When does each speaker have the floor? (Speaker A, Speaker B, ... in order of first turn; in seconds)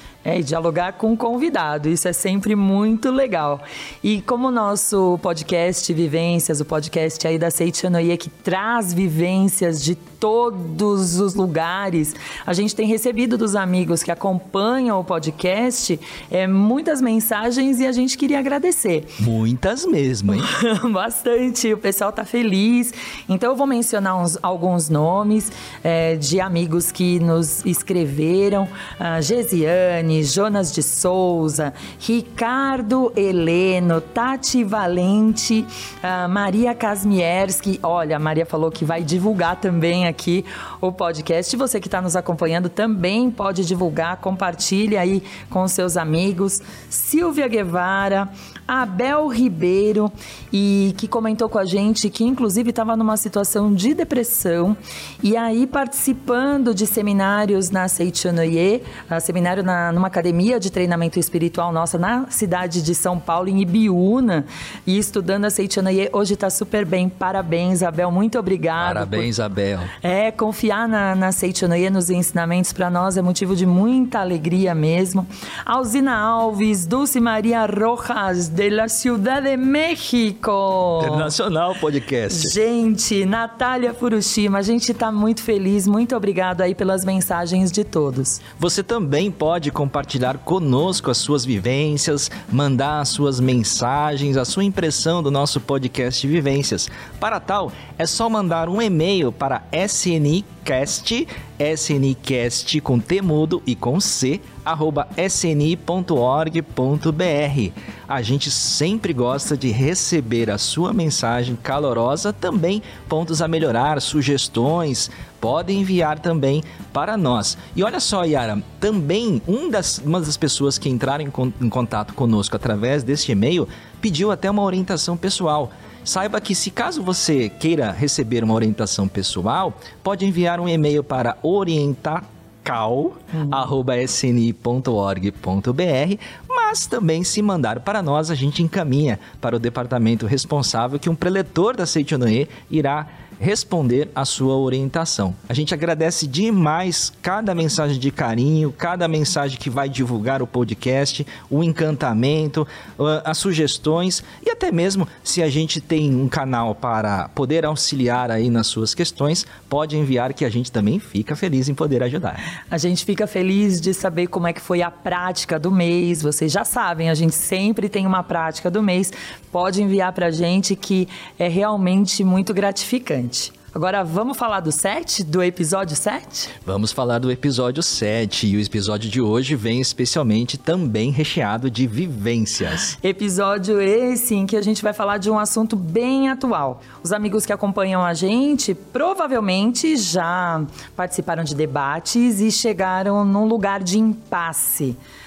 Speaker A: 0.2-19.2, 20.3-69.3, 70.0-81.3, 82.3-88.4, 162.7-176.5, 183.0-195.0
Speaker B: 19.2-20.5, 68.8-69.9, 81.0-82.5, 88.6-162.5, 176.6-182.9